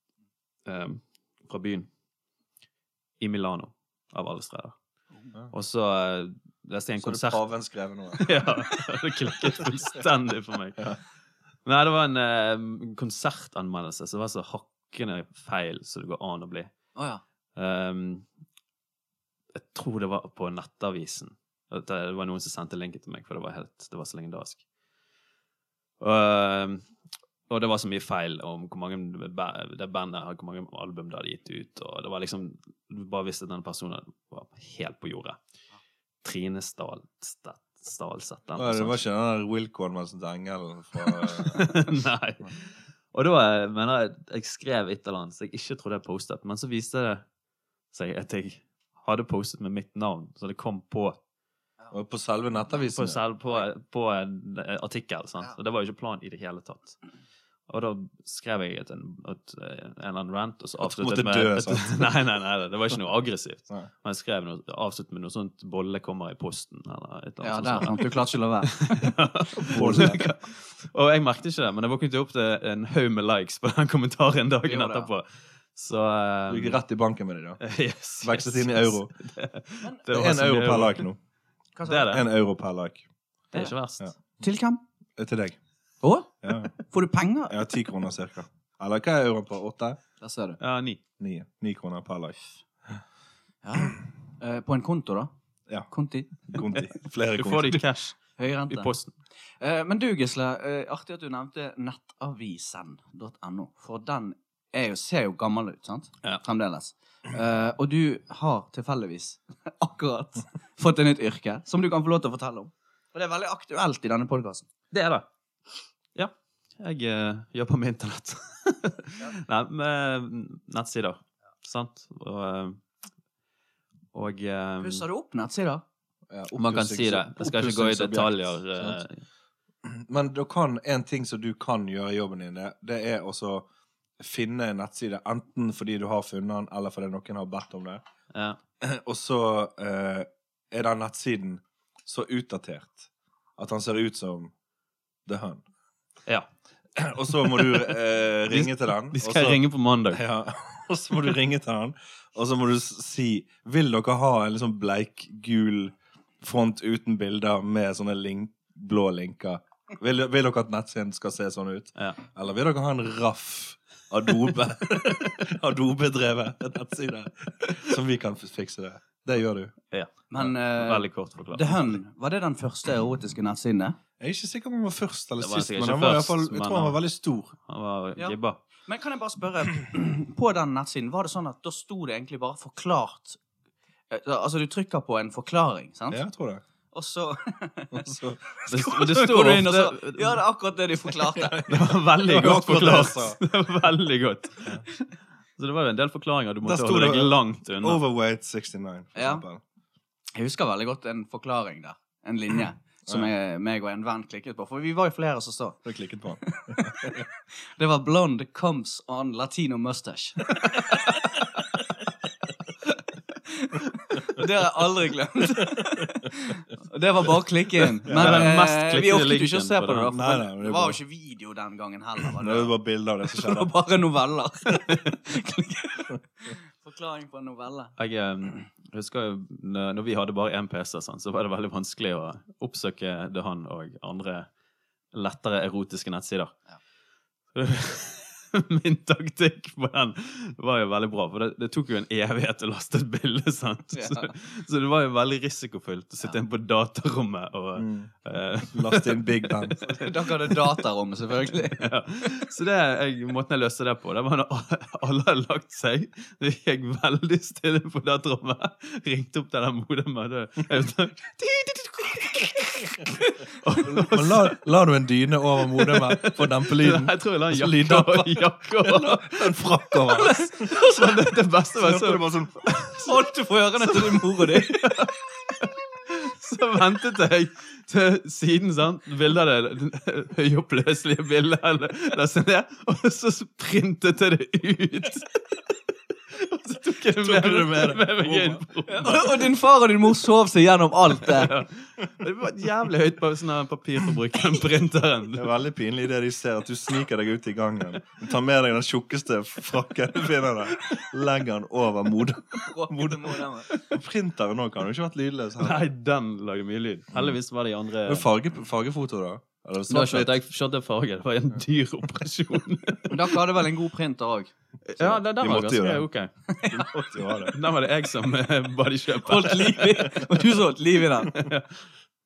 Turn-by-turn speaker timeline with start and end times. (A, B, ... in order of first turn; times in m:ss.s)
0:00.6-0:01.9 A
0:03.2-0:04.8 A
0:05.5-0:07.4 A
0:07.0-0:08.6 B
0:08.2-0:10.9 A
0:11.6-0:16.7 A
0:16.9-0:17.2 C
0:17.6-0:18.2 A
0:19.5-0:24.6 A
0:26.0-0:26.8 A
0:27.5-0:35.4 A
0:36.2-0:39.0 A
0:38.6-0:41.8 B
0:41.0-0:47.2 A
0:47.9-0:51.2 A
0:51.9-0:53.2 B
0:52.8-0:57.0 A
0:57.7-1:16.8 A
1:00.8-1:02.1 B
1:07.4-1:10.3 C
1:09.7-1:10.2 B
1:14.7-1:15.1 C
1:16.5-1:17.6 B
1:17.6-1:21.0 A
1:18.2-1:19.1 B
1:20.1-1:21.2 B
1:21.8-1:22.1 C
1:21.8-1:22.2 A
1:22.0-1:23.0 B
1:23.5-1:24.1 A
1:24.4-1:24.8 C
1:25.2-1:25.6 B
1:26.0-1:27.6 C
1:26.4-1:26.7 B
1:27.5-1:30.0 B
1:30.2-1:30.6 C
1:30.6-1:31.0 A
1:31.2-1:33.0 B
1:33.6-1:35.3 C
1:35.9-1:36.8 C
1:36.4-1:37.8 B
1:37.3-1:39.1 A
1:38.4-1:38.9 C
1:39.6-1:54.7 C
1:54.9-1:55.2 A
1:56.1-2:02.8 A
2:04.1-2:05.0 A
2:04.8-2:05.8 C
2:06.3-2:09.0 B
2:06.5-2:09.2 A
2:09.8-2:13.6 B
2:14.2-2:18.0 B
2:18.3-2:18.6 A
2:18.8-2:24.5 B
2:25.2-2:25.6 B
2:27.0-2:49.7 B
2:27.5-2:27.8 A
2:28.5-2:30.2 A
2:42.0-2:42.2 A
2:49.9-2:52.0 A
2:50.3-2:54.0 C
2:54.2-2:57.5 B
2:55.4-2:57.0 A
2:57.6-2:58.6 A
2:58.2-3:03.4 C
3:04.1-3:06.2 C
3:06.1-3:06.6 B
3:06.9-3:08.0 C
3:07.9-3:08.5 B
3:08.6-3:11.7 C
3:08.7-3:10.4 A
3:11.3-3:13.4 B
3:11.7-3:15.0 A
3:15.6-3:18.0 A
3:16.6-3:19.6 B
3:19.2-3:19.4 C
3:20.3-3:25.8 C
3:25.8-3:27.2 B
3:26.4-3:27.2 C
3:27.8-3:31.8 C
3:33.4-3:42.7 C
3:35.6-3:36.1 B
3:38.0-3:38.5 B
3:38.1-3:40.1 A
3:40.1-3:41.0 B
3:42.2-3:43.7 B
3:43.2-3:47.9 C
3:48.0-3:54.5 A
3:55.1-3:56.5 A
3:57.5-4:10.6 A
4:03.9-4:04.3 C
4:07.8-4:08.1 B
4:08.7-4:09.8 B
4:09.8-4:11.8 C
4:11.4-4:24.6 A
4:23.8-4:30.8 B
4:25.7-4:33.1 A
4:30.1-4:31.2 C
4:31.7-4:32.7 B
4:32.9-4:34.8 C
4:33.8-4:45.4 A
4:46.3-4:49.4 A
4:47.2-4:48.6 B
4:48.9-4:51.5 C
4:51.2-4:55.5 A
4:55.3-5:05.9 B
5:02.6-5:03.7 C
5:05.6-5:08.2 A
5:08.0-5:10.3 B
5:09.9-5:13.4 A
5:13.1-5:14.5 C
5:14.9-5:16.3 A
5:15.0-5:16.1 B
5:16.5-5:16.9 C
5:16.7-5:17.6 B
5:17.5-5:20.0 A
5:19.2-5:21.5 C
5:21.3-5:21.7 A